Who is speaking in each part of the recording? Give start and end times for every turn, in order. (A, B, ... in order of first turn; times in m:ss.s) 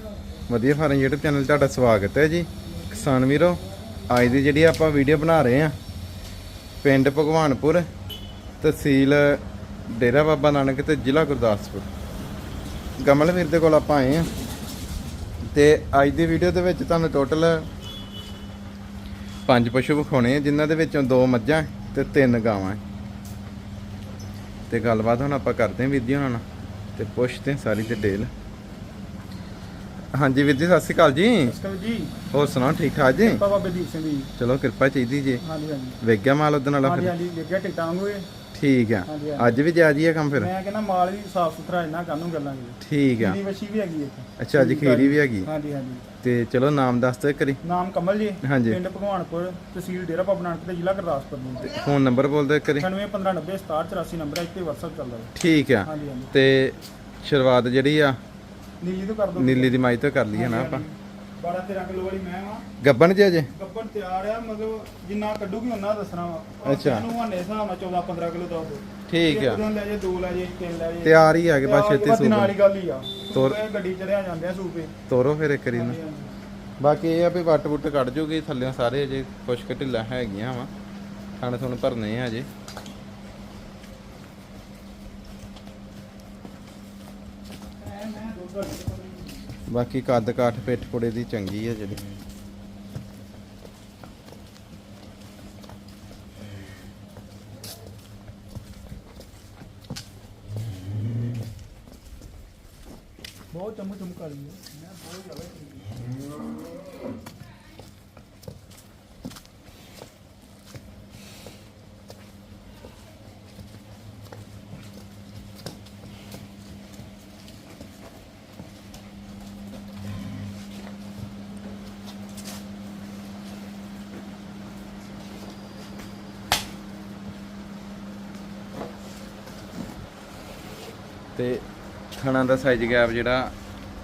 0:00.5-0:05.7 A
0:06.8-0:07.9 A
0:08.6-0:11.9 A
0:13.0-0:14.3 A
0:15.5-0:17.6 A
0:19.5-0:22.8 A
0:24.7-0:26.4 A
0:27.0-0:28.3 A
0:30.1-0:31.5 A
0:31.4-0:32.1 B
0:32.3-0:33.4 A
0:33.2-0:34.3 B
0:34.4-0:35.4 A
0:35.4-0:36.0 B
0:36.0-0:37.1 A
0:36.8-0:38.3 B
0:38.5-0:40.5 A
0:39.0-0:39.6 B
0:40.3-0:46.0 B
0:42.8-0:43.4 A
0:44.4-0:45.5 A
0:46.2-0:47.6 A
0:47.6-0:51.8 B
0:48.4-0:48.8 A
0:51.7-0:52.9 A
0:52.8-0:55.3 B
0:55.4-0:58.2 A
0:55.8-0:56.3 B
0:58.8-0:59.8 B
0:59.4-1:00.8 A
1:00.3-1:02.6 B
1:02.8-1:03.5 A
1:03.5-1:14.9 B
1:06.6-1:07.1 A
1:09.1-1:09.6 A
1:11.0-1:12.5 A
1:15.1-1:16.0 A
1:15.7-1:16.4 B
1:16.8-1:20.7 A
1:21.4-1:22.5 A
1:27.8-1:29.5 B
1:29.7-1:32.0 A
1:43.5-1:46.0 B
2:11.4-2:11.6 A
2:12.2-2:13.5 A